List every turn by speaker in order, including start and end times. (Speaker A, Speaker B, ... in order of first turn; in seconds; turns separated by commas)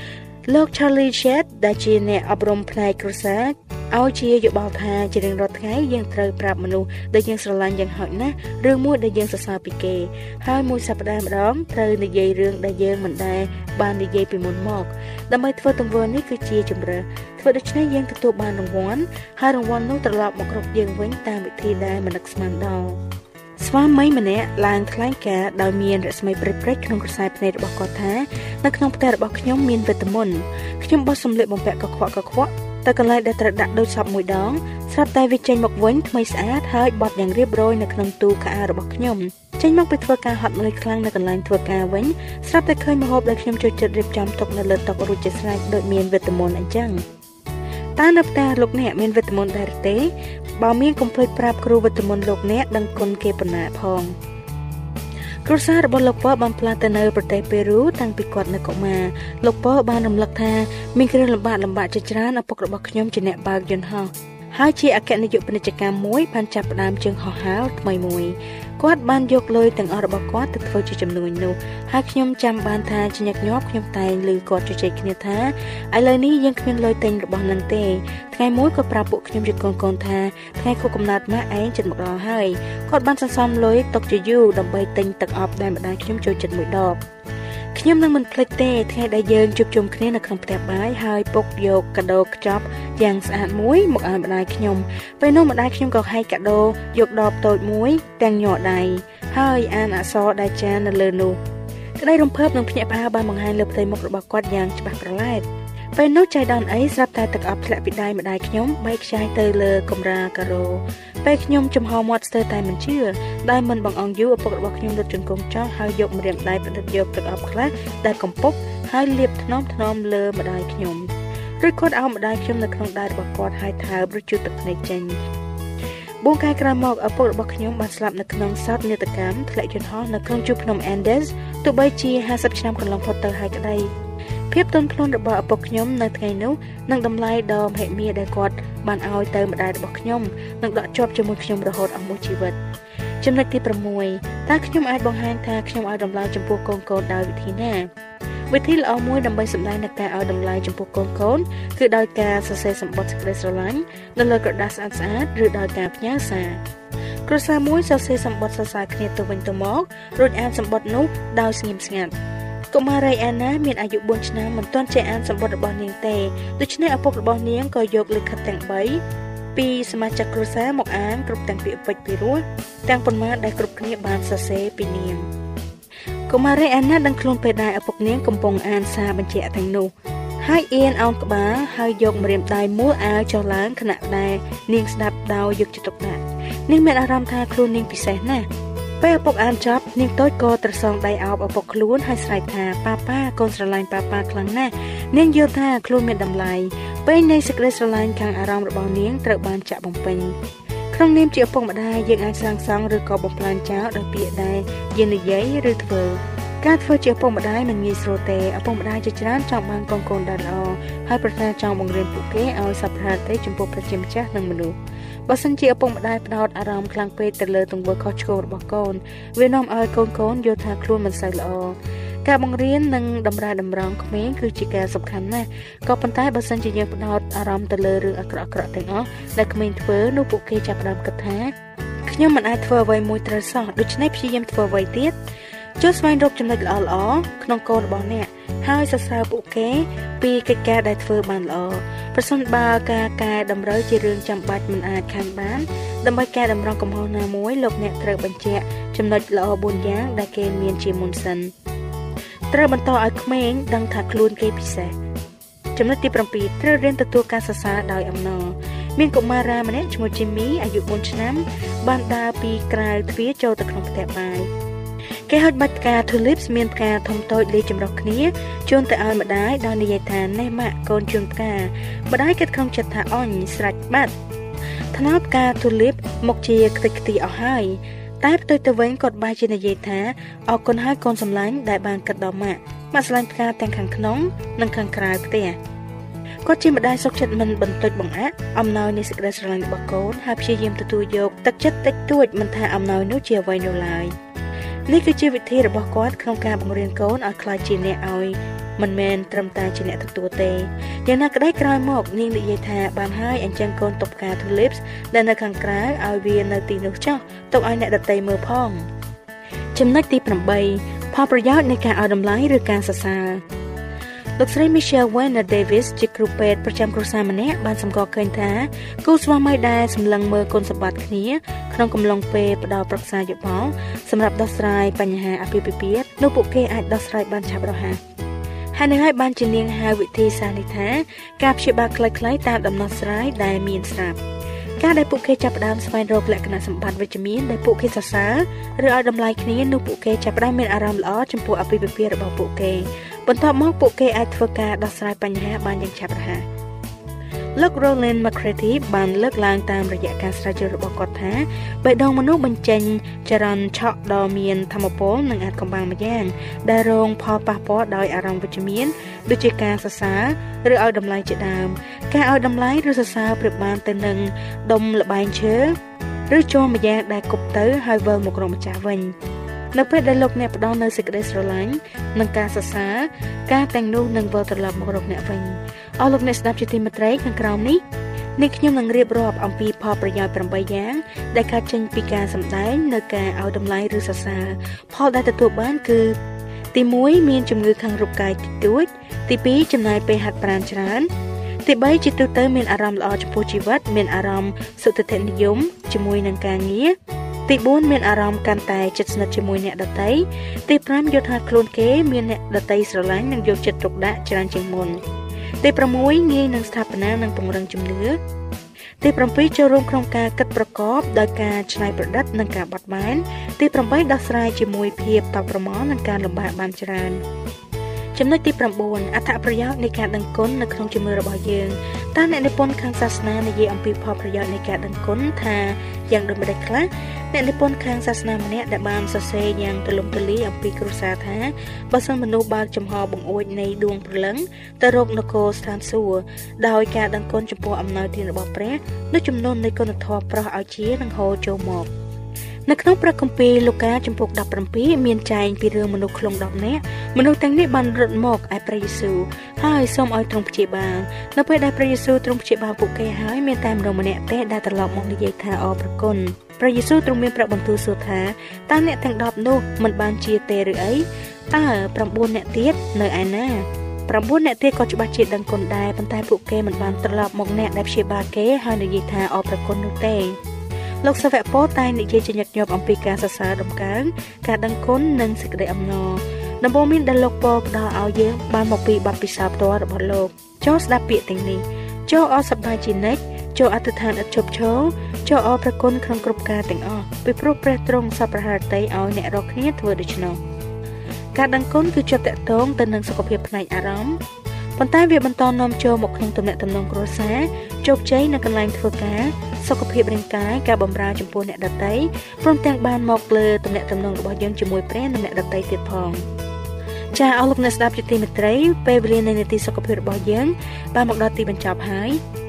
Speaker A: 0.5-23.0, Speaker A: 23.6-47.0, Speaker A: 48.0-54.1, Speaker A: 55.5-87.0, Speaker A: 87.7-101.4, Speaker A: 102.0-121.1, Speaker A: 121.6-125.2, Speaker A: 126.2-133.9, Speaker A: 134.5-142.6, Speaker A: 143.2-147.9, Speaker A: 148.5-156.6, Speaker A: 157.2-162.1, Speaker A: 162.7-169.0, Speaker A: 169.5-175.2, Speaker A: 176.3-179.9, Speaker A: 180.4-188.4, Speaker A: 189.0-200.3, Speaker A: 200.9-214.7, Speaker A: 215.3-231.5, Speaker A: 232.1-235.1, Speaker A: 235.8-251.5, Speaker A: 252.5-254.9, Speaker A: 255.8-264.5, Speaker A: 265.3-274.1, Speaker A: 274.9-285.6, Speaker A: 286.4-294.1, Speaker A: 294.9-308.8, Speaker A: 309.7-313.4, Speaker A: 314.4-328.0, Speaker A: 328.7-334.2, Speaker A: 334.8-346.4, Speaker A: 347.6-365.7, Speaker A: 366.3-369.1, Speaker A: 369.7-377.8, Speaker A: 378.4-386.1, Speaker A: 386.7-391.1, Speaker A: 391.6-396.9, Speaker A: 397.5-405.0, Speaker A: 405.6-408.2, Speaker A: 409.0-417.2, Speaker A: 418.1-441.9, Speaker A: 442.7-470.4, Speaker A: 471.0-490.4, Speaker A: 491.4-494.2, Speaker A: 494.8-506.2, Speaker A: 507.1-512.2